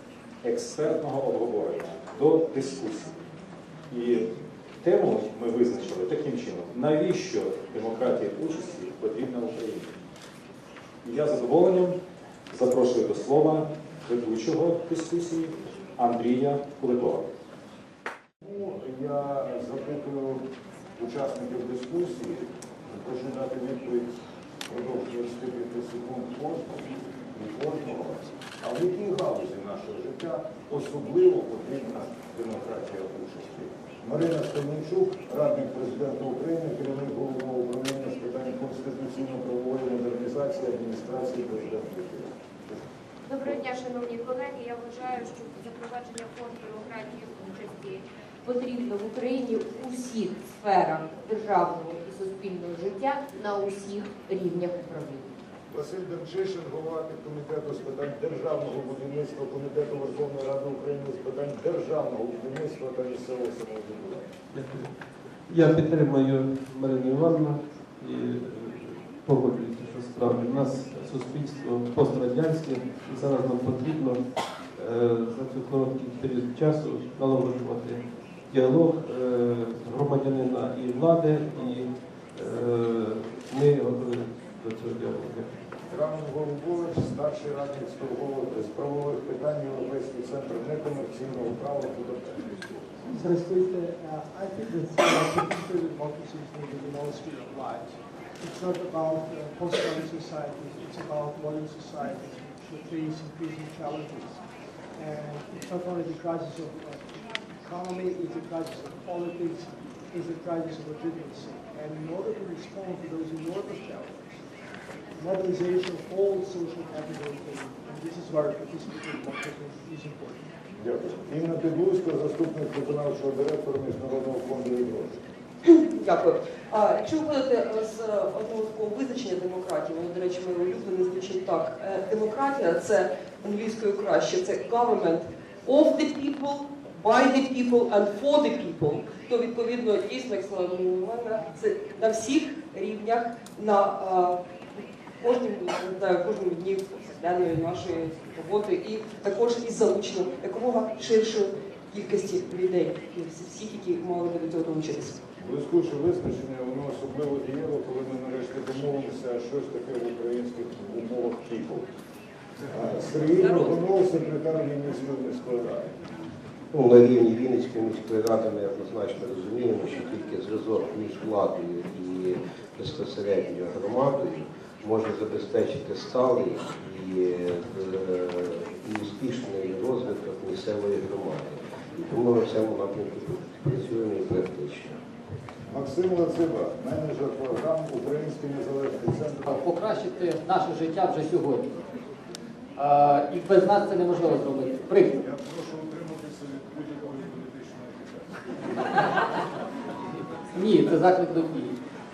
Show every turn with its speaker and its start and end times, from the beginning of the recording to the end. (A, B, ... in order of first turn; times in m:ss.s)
0:00.4-0:03.1 A
0:03.9-0:04.3 A
0:04.8-0:09.9 A
0:11.0-0:12.0 A
0:12.5-0:17.3 A
0:18.4-0:20.4 B
0:21.0-0:24.1 B
0:24.6-0:42.8 B
0:43.2-0:46.2 C
0:46.9-0:55.3 C
0:55.7-1:04.2 B
1:04.5-1:04.9 D
1:05.5-1:25.5 D
1:25.9-1:32.8 B
1:33.0-1:44.4 E
1:45.0-1:54.3 E
1:55.2-2:00.4 E
2:00.8-2:05.2 B
2:05.6-2:24.4 F
2:25.2-2:35.2 F
2:35.4-2:41.8 B
2:42.7-2:45.9 B
2:46.7-3:05.0 G
3:05.7-3:09.5 B
3:09.5-3:11.6 H
3:12.8-3:15.1 H
3:15.2-3:18.5 B
3:20.5-3:21.8 H